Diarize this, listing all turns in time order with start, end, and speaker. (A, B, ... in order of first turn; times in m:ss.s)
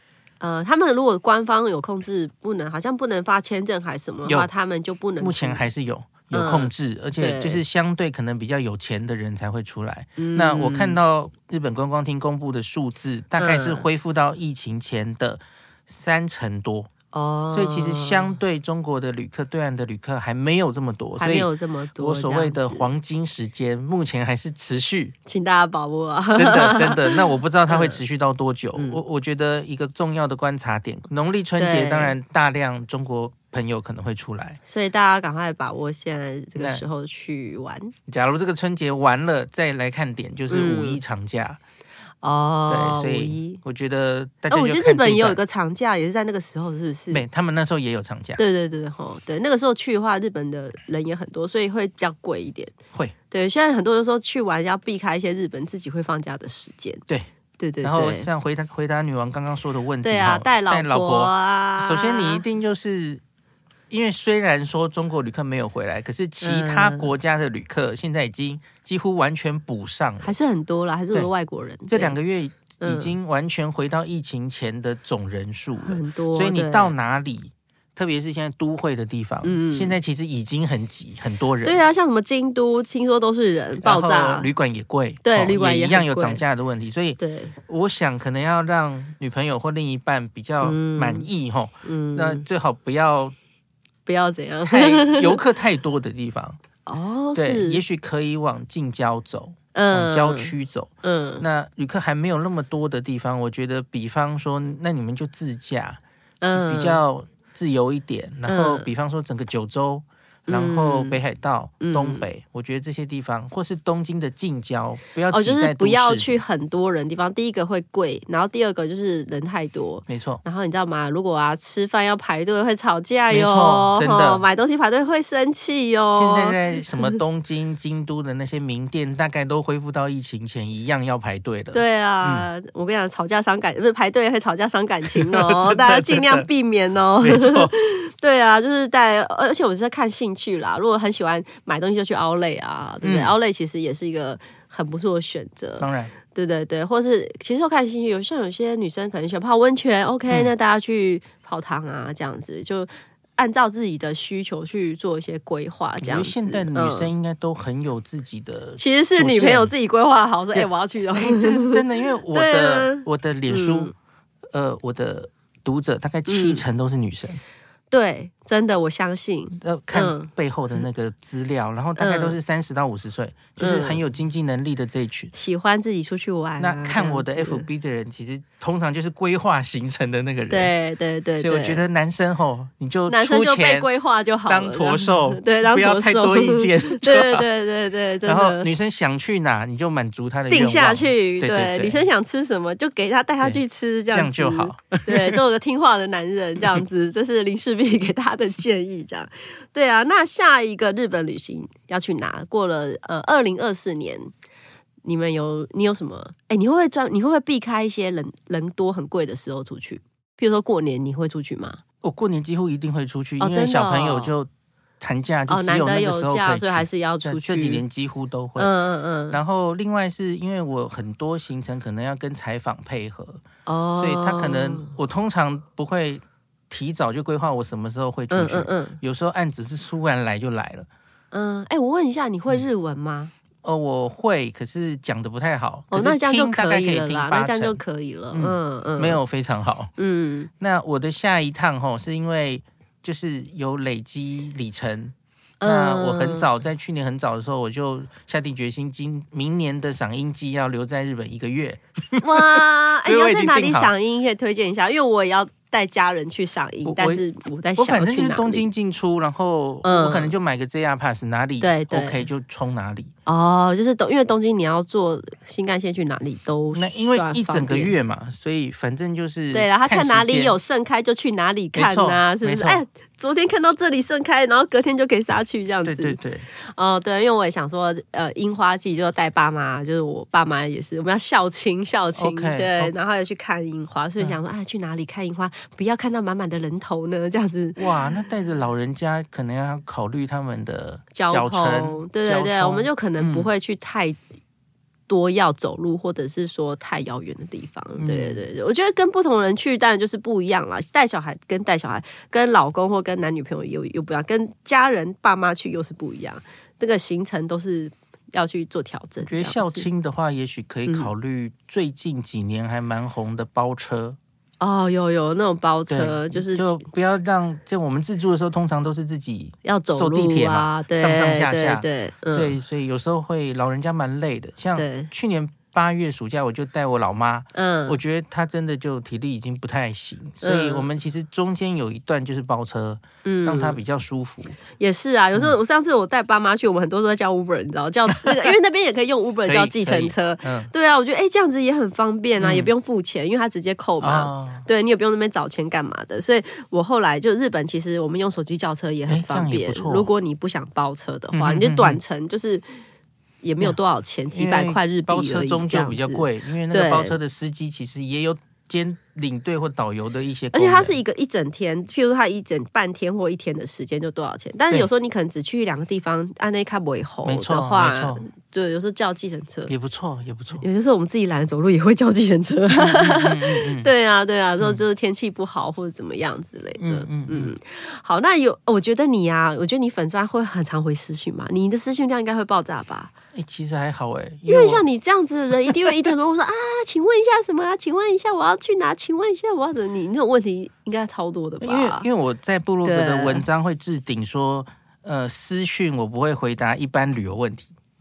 0:00.4-0:05.6 A
0:05.2-0:16.9 B
0:06.3-0:07.6 A
0:10.2-0:11.0 A
0:13.4-0:13.9 A
0:17.1-0:18.4 A
0:17.5-0:25.2 B
0:21.2-0:22.9 A
0:25.3-0:28.0 A
0:26.3-0:34.6 B
0:28.8-0:29.0 A
0:31.6-0:32.2 A
0:34.7-0:37.9 A
0:36.6-0:36.8 B
0:38.1-0:41.6 B
0:40.5-0:41.0 A
0:42.2-0:43.6 A
0:42.7-0:45.4 B
0:44.5-0:47.2 A
0:47.1-0:48.4 B
0:48.4-0:52.7 A
0:53.3-0:57.0 A
0:57.6-0:58.3 A
0:57.8-1:03.2 B
1:00.0-1:02.4 A
1:03.9-1:10.3 B
1:06.4-1:07.1 A
1:10.2-1:12.2 A
1:11.9-1:21.8 B
1:12.8-1:13.2 A
1:15.8-1:16.9 A
1:19.4-1:20.0 A
1:21.6-1:24.5 A
1:23.8-1:33.4 B
1:25.2-1:26.4 A
1:27.2-1:27.6 A
1:30.6-1:31.3 A
1:31.8-1:32.5 A
1:34.1-1:35.4 A
1:34.7-1:36.6 B
1:36.9-1:37.8 A
1:37.4-1:46.0 B
1:39.7-1:41.4 A
1:46.4-1:47.0 A
1:46.5-1:56.4 B
1:48.5-1:48.9 A
1:50.5-1:51.2 A
1:51.8-1:52.2 A
1:55.3-2:07.2 A
2:00.1-2:00.4 B
2:03.3-2:04.5 B
2:06.2-2:12.5 B
2:11.7-2:37.1 A
2:15.1-2:16.5 B
2:17.2-2:17.7 B
2:23.0-2:23.4 B
2:25.8-2:26.1 B
2:36.0-2:39.7 B
2:38.8-2:43.9 A
2:40.5-2:43.9 B
2:44.5-2:47.4 B
2:46.3-2:46.6 A
2:47.9-2:50.3 A
2:49.6-2:55.3 B
2:52.0-2:52.4 A
2:53.6-2:54.0 A
2:55.3-2:57.7 A
2:56.6-3:00.7 B
3:00.5-3:01.8 A
3:01.4-3:03.9 B
3:03.1-3:08.7 A
3:04.5-3:07.4 B
3:08.3-3:12.0 B
3:10.5-3:24.3 A
3:14.1-3:15.4 B
3:25.0-3:31.8 A
3:32.0-3:34.5 B
3:33.4-3:34.3 A
3:35.0-3:38.7 B
3:35.5-3:37.8 A
3:38.6-3:39.4 A
3:39.3-3:43.4 B
3:43.7-3:44.9 A
3:44.0-3:50.9 B
3:48.3-3:49.0 A
3:51.3-3:53.3 A
3:53.6-3:57.8 B
3:55.9-3:59.2 A
3:58.3-3:59.9 B
4:00.0-4:00.5 A
4:00.6-4:13.9 B
4:05.6-4:06.5 A
4:12.2-4:18.7 A
4:16.8-4:17.2 B
4:17.8-4:23.1 B
4:19.8-4:20.4 A
4:21.6-4:22.2 A
4:23.3-4:27.9 A
4:26.7-4:30.6 B
4:29.5-4:47.8 A
4:31.8-4:32.8 B
4:35.8-4:36.5 B
4:42.2-4:42.9 B
4:47.8-4:53.5 B
4:51.1-4:54.2 A
4:55.1-5:09.9 A
4:58.0-4:58.4 B
5:09.2-5:14.2 B
5:14.6-5:16.8 A
5:15.9-5:34.6 B
5:19.6-5:22.6 A
5:24.8-5:25.1 A
5:27.5-5:28.0 A
5:30.4-5:30.9 A
5:33.2-5:33.8 A
5:34.8-5:52.6 A
5:38.1-5:38.5 B
5:39.5-5:40.7 B
5:42.4-5:42.7 B
5:44.0-5:44.7 B
5:49.1-5:50.1 B
5:51.3-5:52.0 B
5:53.4-5:57.2 A
5:54.3-6:01.0 B
6:00.5-6:09.7 A
6:07.2-6:08.3 B
6:09.7-6:10.6 B
6:10.6-6:23.1 A
6:12.7-6:13.9 B
6:16.8-6:17.5 B
6:23.3-6:24.8 B
6:24.5-6:32.1 A
6:31.6-6:37.7 B
6:32.8-6:33.4 A